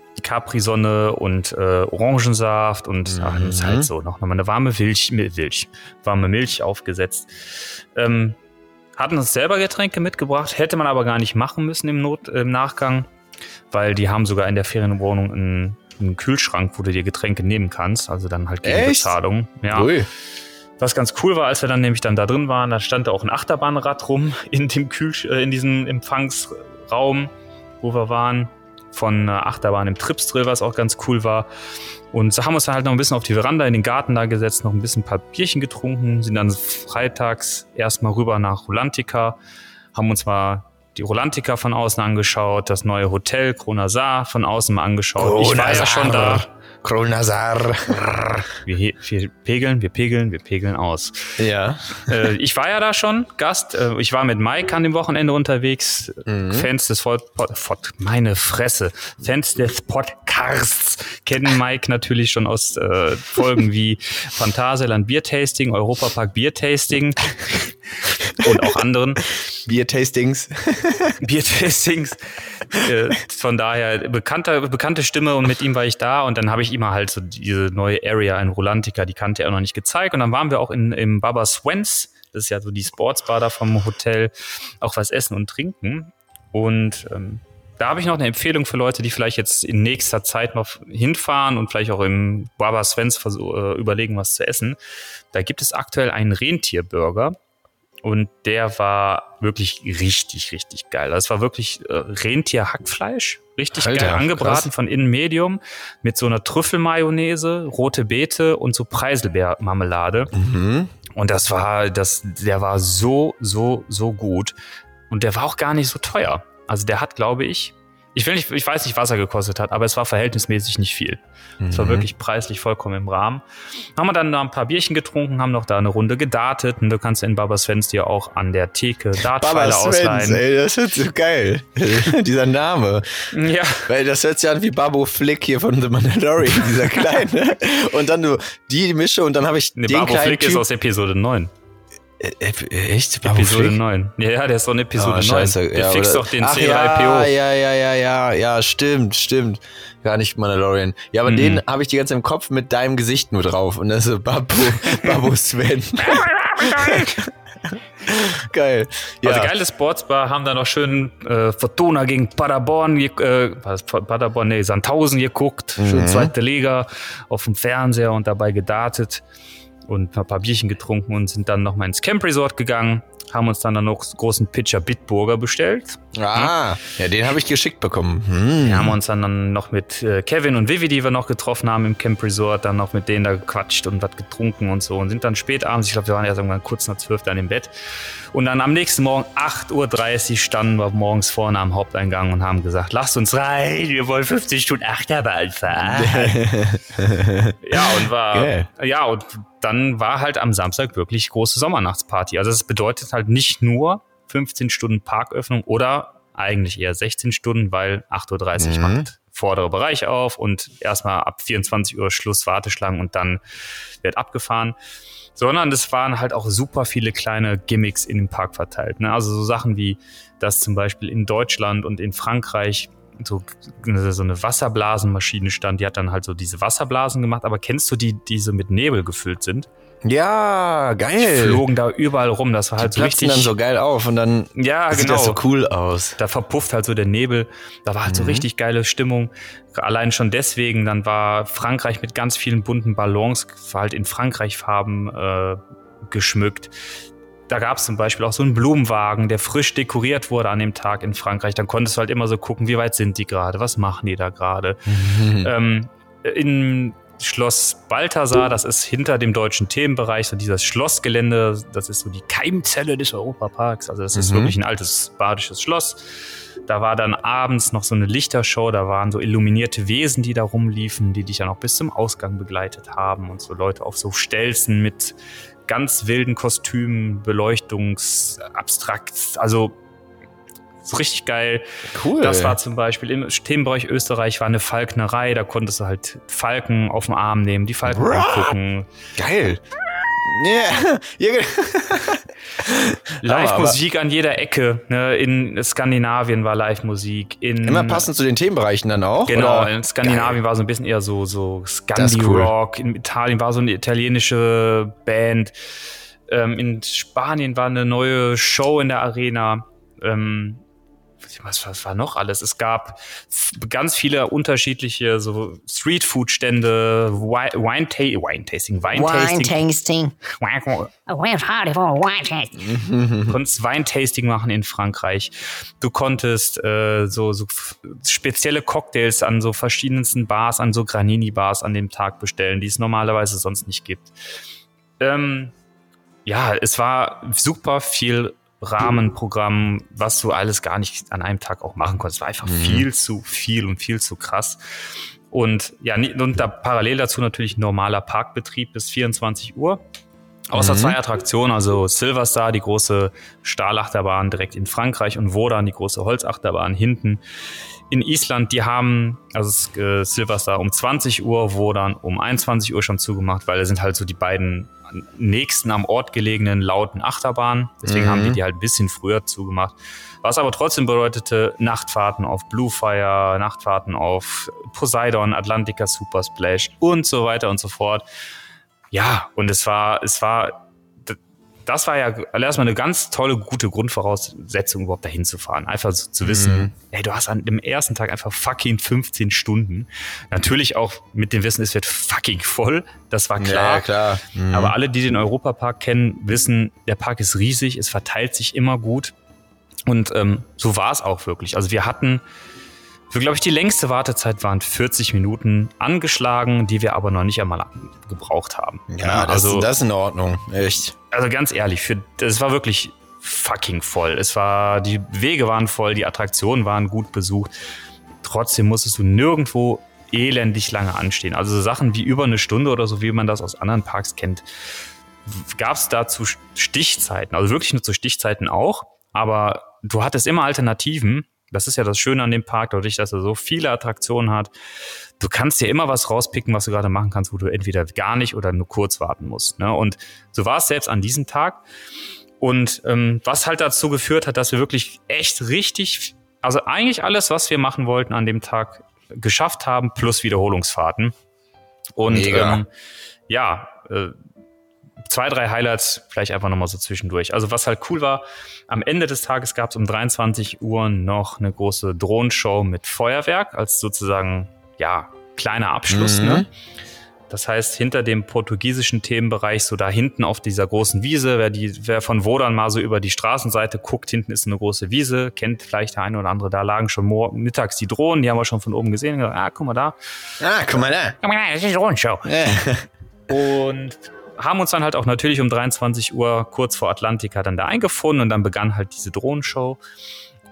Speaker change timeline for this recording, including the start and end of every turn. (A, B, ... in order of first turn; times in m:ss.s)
0:00.2-0:08.4 A
0:03.1-0:03.9 B
0:09.0-0:13.1 A
0:13.7-0:19.9 A
0:18.6-0:19.2 B
0:19.7-0:20.1 B
0:20.8-0:31.5 A
0:32.1-0:39.4 A
0:39.9-0:46.4 A
0:45.2-0:48.5 B
0:48.6-0:51.4 A
0:51.4-0:52.3 B
0:52.1-1:09.3 A
0:56.3-0:56.7 B
1:09.7-1:11.2 B
1:11.2-1:34.8 A
1:35.3-1:37.4 A
1:38.0-1:50.3 A
1:43.7-1:44.7 B
1:50.3-1:50.9 B
1:51.1-1:54.6 A
1:55.1-2:03.4 A
2:01.6-2:02.1 B
2:04.0-2:10.4 A
2:09.2-2:13.3 B
2:13.3-2:13.9 A
2:13.9-2:20.7 B
2:19.8-2:21.5 A
2:22.2-2:23.8 B
2:23.2-2:27.3 A
2:25.0-2:39.5 B
2:31.3-2:31.6 A
2:34.9-2:35.1 A
2:36.0-2:37.2 A
2:39.2-2:49.2 A
2:45.8-2:46.3 B
2:49.9-2:56.6 A
2:56.1-2:59.0 B
2:58.6-3:07.7 A
3:08.3-3:16.5 A
3:15.8-3:18.7 B
3:17.6-3:33.4 A
3:28.6-3:29.1 B
3:34.0-3:34.8 A
3:35.4-3:49.7 A
3:50.0-3:51.6 B
3:51.2-3:53.5 A
3:52.8-3:56.2 B
3:54.6-3:55.4 A
3:56.2-4:06.7 A
3:58.1-3:58.5 B
4:07.5-4:26.1 A
4:14.9-4:15.5 B
4:24.2-4:24.6 B
4:26.7-4:35.2 A
4:35.7-4:39.8 A
4:40.8-4:41.6 A
4:41.9-4:42.6 B
4:42.2-4:48.9 A
4:47.9-4:48.5 B
4:49.2-4:49.6 B
4:50.2-4:53.8 B
4:53.2-4:58.1 A
4:57.6-5:00.4 B
4:59.3-5:05.5 A
5:02.0-5:02.5 B
5:06.3-5:10.6 A
5:11.3-5:19.6 A
5:18.9-5:20.2 C
5:20.3-5:20.9 A
5:21.1-5:22.7 C
5:22.6-5:23.4 B
5:23.2-5:34.1 A
5:35.0-5:35.5 A
5:36.3-5:44.6 A
5:42.4-5:42.9 B
5:45.3-5:49.8 A
5:50.5-5:57.2 A
5:50.5-5:51.0 B
5:57.9-6:18.0 A
6:07.8-6:08.4 B
6:18.9-6:33.9 A
6:26.2-6:26.7 B
6:33.4-6:34.8 B
6:34.5-6:39.1 A
6:39.9-6:42.2 A
6:43.1-6:49.7 A
6:48.9-6:51.0 B
6:51.1-6:57.5 A
6:58.2-7:04.5 A
7:05.2-7:14.5 A
7:15.2-7:21.6 A
7:22.4-7:31.1 A
7:32.0-7:32.7 A
7:32.1-7:32.6 B
7:33.3-7:34.2 A
7:35.1-7:46.5 A
7:45.9-7:46.5 B
7:47.3-8:00.0 A
8:00.4-8:01.2 B
8:01.2-8:02.3 A
8:02.2-8:02.9 B
8:03.3-8:09.8 A